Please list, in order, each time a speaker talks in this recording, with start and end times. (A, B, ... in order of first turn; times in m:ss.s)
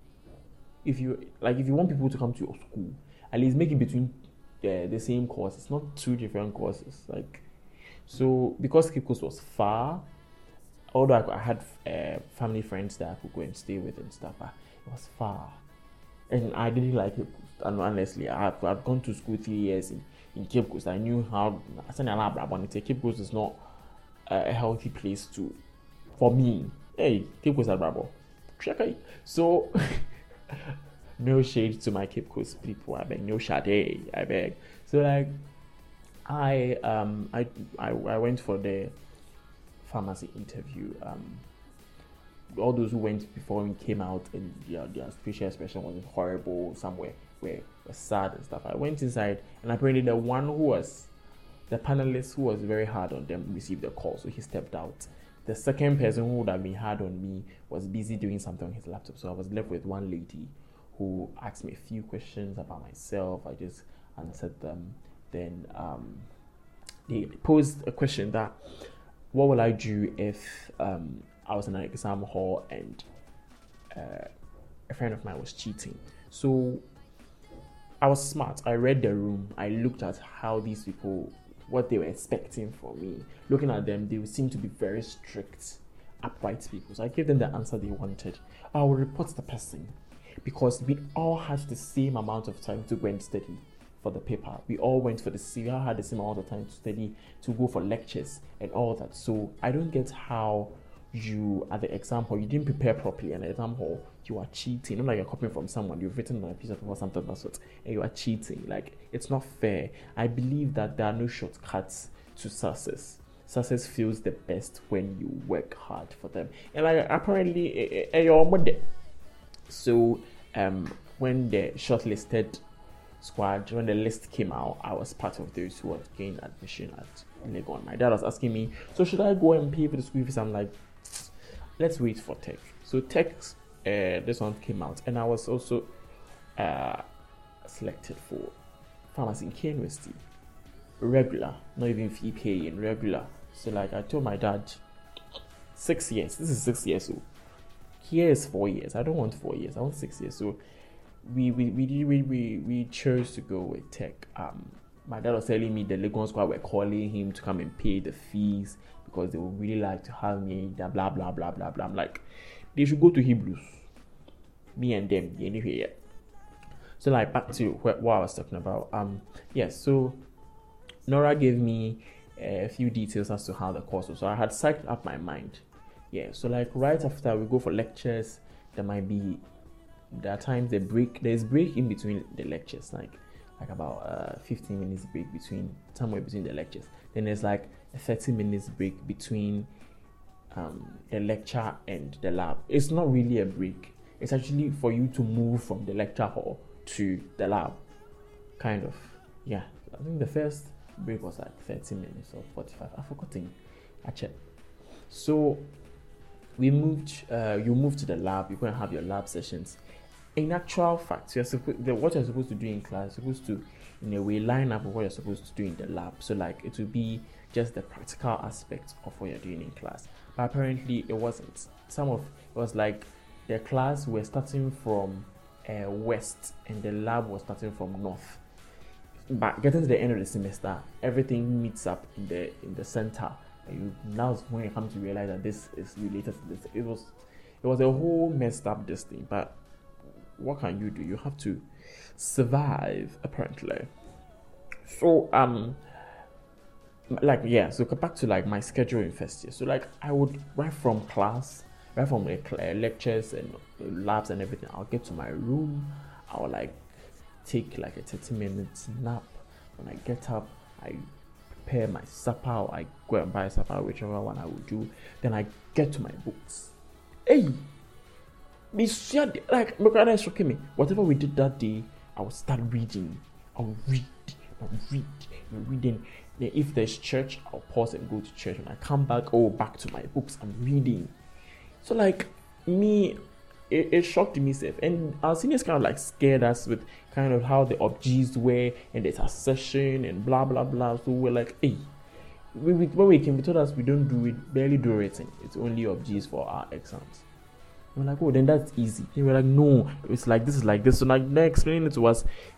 0:00.8-0:07.4 A
0:08.1-0:10.0 A
0:10.9-0:15.6 A
0:16.3-0:23.6 A
0:24.3-0:25.6 A
0:26.2-0:35.4 A
0:36.3-0:39.0 A
0:39.8-0:41.5 A
0:42.6-0:51.1 A
0:51.7-1:06.3 A
1:07.1-1:08.6 A
1:09.3-1:13.1 A
1:13.9-1:14.3 A
1:14.9-1:16.8 A
1:18.0-1:58.9 A
1:59.7-2:02.6 A
2:03.2-2:15.9 A
2:16.6-2:17.0 A
2:17.6-2:18.5 A
2:19.1-2:20.2 A
2:21.0-2:24.8 A
2:25.7-2:27.2 A
2:28.0-2:30.6 A
2:31.2-2:42.2 A
2:42.8-2:43.9 A
2:44.8-2:46.0 A
2:47.0-2:50.2 A
2:51.1-2:59.4 A
3:00.1-3:09.7 A
3:10.5-3:17.8 A
3:18.6-3:24.4 A
3:25.1-3:25.7 A
3:26.6-3:29.8 A
3:30.4-3:48.4 A
3:49.3-3:59.6 A
4:00.4-4:03.9 A
4:04.8-4:05.8 A
4:07.1-4:21.1 A
4:21.6-4:26.8 A
4:27.3-4:27.7 A
4:28.7-4:41.1 A
4:41.8-4:43.2 A
4:43.7-4:51.9 A
4:52.5-4:57.2 A
4:58.0-5:02.3 A